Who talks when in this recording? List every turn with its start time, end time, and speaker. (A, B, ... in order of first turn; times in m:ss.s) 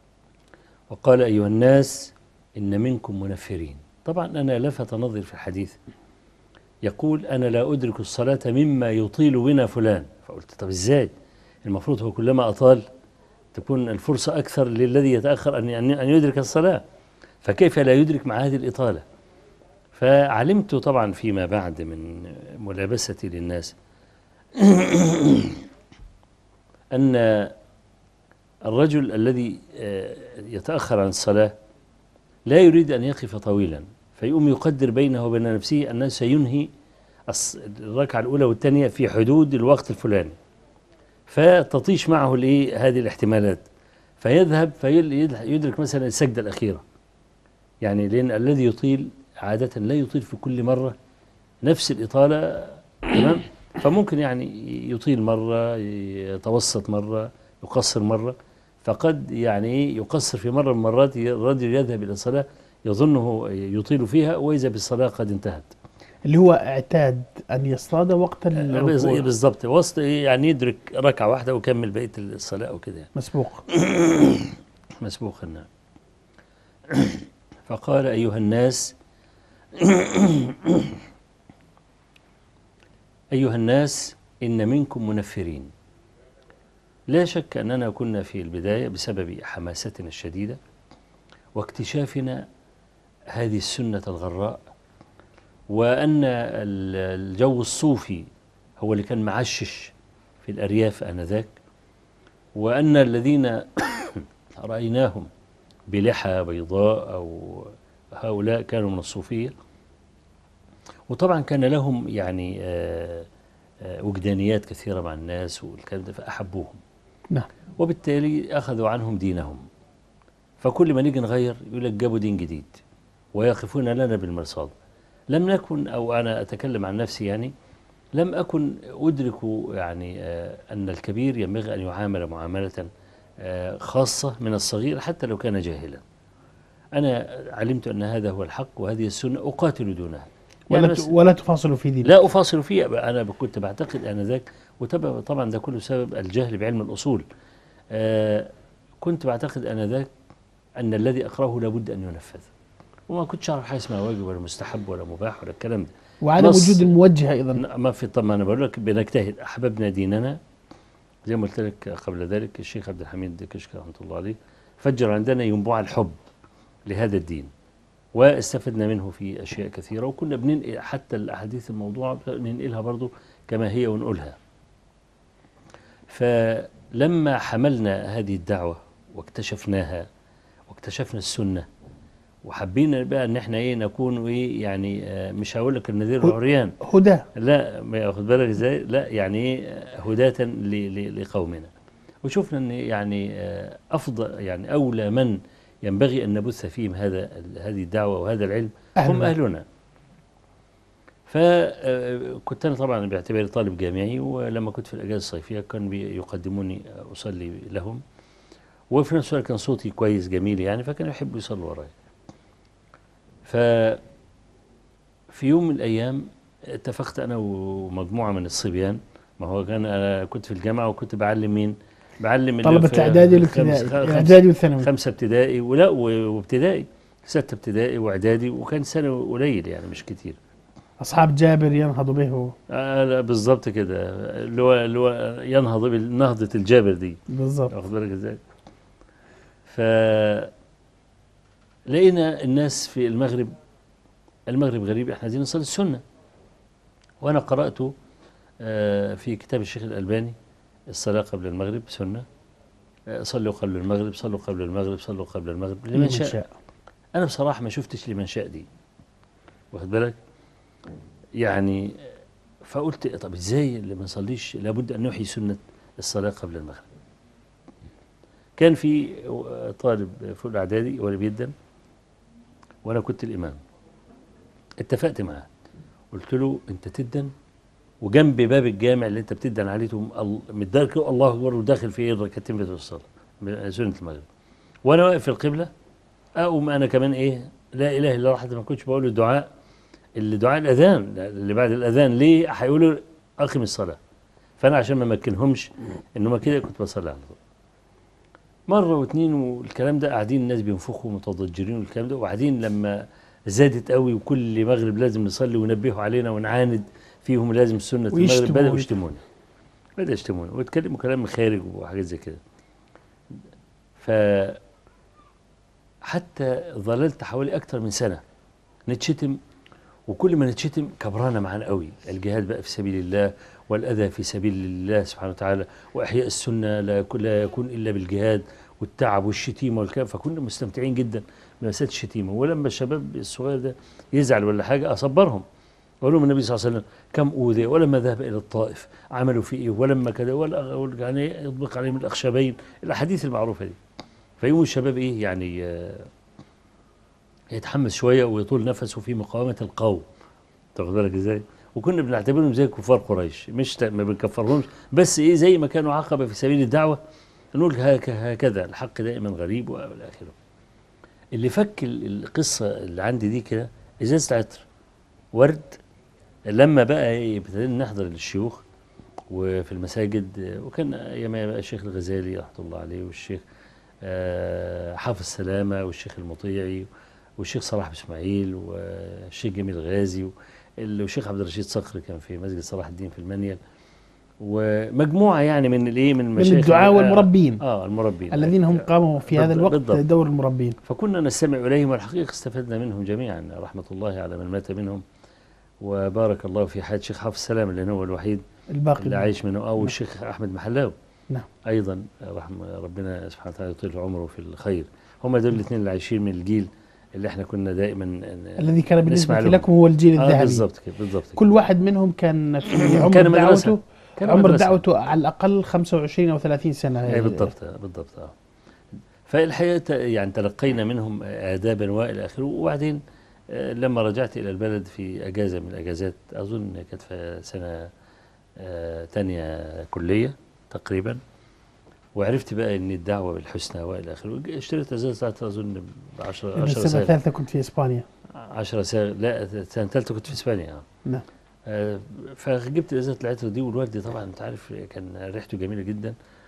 0:00.9-0:05.8 A
0:06.8-0:11.1 A
0:11.6-0:12.8 A
0:13.5-0:16.8 A
0:17.4-0:19.0 A
0:19.9-0:23.8 A
0:24.6-0:25.6 A
0:26.9-0:27.6 A
0:28.7-0:31.6 A
0:32.5-0:36.7 A
0:37.3-0:40.4 A
0:41.3-0:43.7 A
0:44.2-0:46.8 A
0:47.8-0:51.0 A
0:51.6-1:05.7 A
1:06.3-1:09.3 B
1:08.6-1:13.1 A
1:13.2-1:13.6 B
1:13.7-1:15.7 A
1:16.9-1:18.9 A
1:19.8-1:21.0 A
1:23.3-1:25.7 A
1:27.1-1:30.6 A
1:31.6-1:32.4 A
1:33.3-1:34.6 A
1:35.7-1:38.3 A
1:38.8-1:41.5 A
1:42.6-1:45.3 A
1:45.9-1:49.5 A
1:51.1-1:53.3 A
1:53.8-1:56.8 A
1:57.8-1:59.6 A
2:00.6-2:02.8 A
2:03.4-2:04.7 A
2:05.3-2:07.5 A
2:08.2-2:12.9 A
2:13.4-2:16.0 A
2:17.0-2:21.1 A
2:20.7-2:22.2 B
2:22.0-2:27.2 A
2:27.9-2:30.1 A
2:30.8-2:32.5 A
2:33.1-2:36.9 A
2:36.2-2:37.6 B
2:37.6-2:40.4 A
2:41.2-2:46.2 A
2:46.9-2:47.5 A
2:48.2-2:54.4 A
2:56.1-3:00.1 A
3:00.7-3:01.7 A
3:02.4-3:06.8 A
3:06.8-3:07.3 B
3:07.3-3:11.7 A
3:12.2-3:19.6 A
3:19.0-3:19.3 B
3:21.3-3:28.0 A
3:28.9-3:31.9 A
3:33.4-3:34.0 A
3:35.3-3:50.4 A
3:42.6-3:44.9 B
3:51.0-3:52.6 B
3:52.7-3:58.4 A
3:57.3-3:57.7 B
3:59.7-4:00.5 A
4:01.9-4:03.6 A
4:04.5-4:06.0 A
4:07.2-4:07.9 A
4:08.6-4:10.4 A
4:10.9-4:12.3 A
4:13.1-4:16.4 A
4:15.9-4:16.5 B
4:17.2-4:18.7 A
4:19.7-4:20.2 A
4:21.4-4:22.1 A
4:22.6-4:26.9 A
4:28.6-4:31.5 A
4:32.8-4:33.6 A
4:34.8-4:35.5 A
4:36.1-4:37.3 A
4:38.0-4:44.3 A
4:44.9-4:45.7 A
4:46.4-4:49.5 A
4:50.2-4:54.0 A
4:54.6-4:57.4 A
4:58.7-5:09.2 A
5:08.1-5:08.9 B
5:10.0-5:12.4 A
5:14.0-5:14.6 A
5:16.0-5:18.2 A
5:18.9-5:19.4 A
5:20.1-5:35.4 A
5:36.0-5:43.8 A
5:44.4-5:46.1 A
5:47.5-5:50.1 A
5:50.8-5:57.0 A
5:57.6-6:00.4 A
6:01.4-6:04.6 A
6:05.3-6:05.8 A
6:06.5-6:08.6 A
6:09.3-6:13.4 A
6:14.0-6:23.6 A
6:24.4-6:30.0 A
6:26.4-6:27.6 B
6:28.3-6:30.8 B
6:30.8-6:35.0 A
6:35.8-6:38.4 A
6:38.7-6:39.3 B
6:39.0-6:40.9 A
6:41.6-6:51.4 A
6:48.6-6:50.7 B
6:51.4-6:57.5 B
6:52.7-6:54.8 A
6:57.1-6:58.4 A
6:59.3-7:07.9 A
7:08.6-7:11.2 A
7:12.2-7:17.1 A
7:16.6-7:18.1 B
7:18.4-7:20.8 A
7:21.7-7:26.2 A